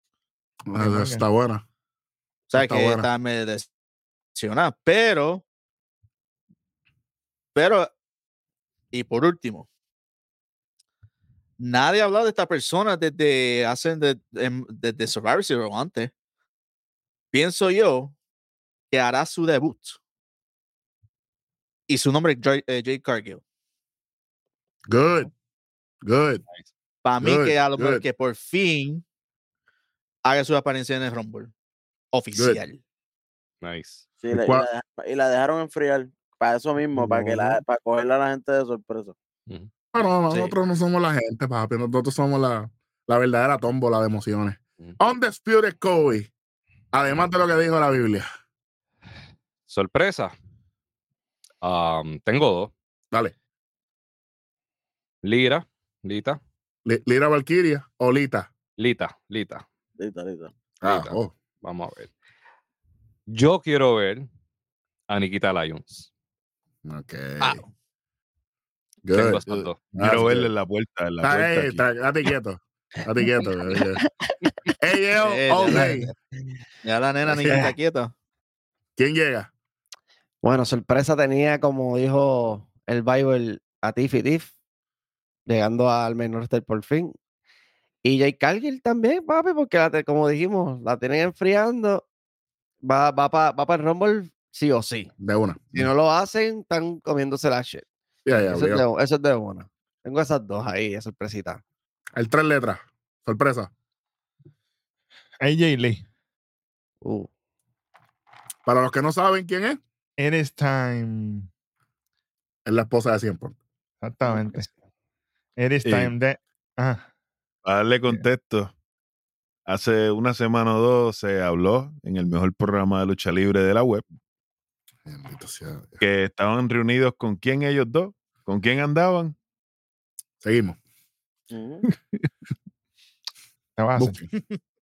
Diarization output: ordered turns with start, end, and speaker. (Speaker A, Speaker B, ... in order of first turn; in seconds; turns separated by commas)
Speaker A: 0.7-1.6, Speaker B: 0.7-1.2, Speaker C: 2.5-3.7, Speaker A: 2.5-3.0, Speaker C: 4.3-5.4, Speaker C: 7.5-7.9, Speaker C: 8.9-9.7, Speaker C: 11.6-16.1, Speaker C: 17.3-18.1, Speaker C: 18.9-20.0, Speaker C: 21.9-23.4, Speaker A: 24.9-25.3, Speaker A: 26.0-26.4, Speaker C: 27.0-29.0, Speaker A: 27.2-28.0, Speaker C: 30.2-31.5, Speaker C: 32.1-32.8, Speaker A: 32.3-32.6, Speaker D: 33.6-34.0, Speaker E: 34.2-39.1, Speaker A: 34.3-34.7, Speaker A: 39.9-46.3, Speaker A: 46.9-48.2, Speaker D: 49.7-50.3, Speaker D: 51.6-52.7, Speaker D: 55.2-56.4, Speaker A: 56.8-58.5, Speaker D: 58.8-59.6, Speaker E: 60.0-60.5, Speaker A: 60.8-61.3, Speaker D: 60.9-62.1, Speaker D: 63.3-64.3, Speaker D: 65.1-66.1, Speaker A: 66.8-67.6, Speaker C: 67.4-67.7, Speaker A: 69.0-69.4, Speaker D: 69.1-69.8, Speaker F: 69.5-71.8, Speaker A: 69.9-70.5, Speaker A: 71.2-74.0, Speaker A: 74.8-76.1, Speaker C: 75.2-76.0, Speaker C: 76.8-78.1, Speaker A: 77.3-77.7, Speaker A: 79.0-79.5, Speaker G: 80.4-84.5, Speaker G: 85.5-87.1, Speaker G: 88.0-92.0, Speaker G: 92.8-95.1, Speaker A: 95.2-95.9, Speaker G: 95.7-101.6, Speaker A: 98.2-98.8, Speaker A: 102.1-103.7, Speaker B: 105.4-106.0, Speaker G: 107.0-107.3, Speaker A: 108.7-109.8, Speaker B: 110.2-111.5, Speaker A: 112.7-113.5, Speaker B: 114.0-114.7, Speaker B: 115.6-117.0, Speaker F: 115.8-116.1, Speaker F: 117.6-118.7, Speaker F: 119.7-124.0, Speaker A: 125.0-126.0, Speaker F: 126.0-129.3, Speaker A: 130.4-130.8, Speaker E: 131.5-131.8, Speaker B: 133.8-134.2, Speaker A: 134.0-134.2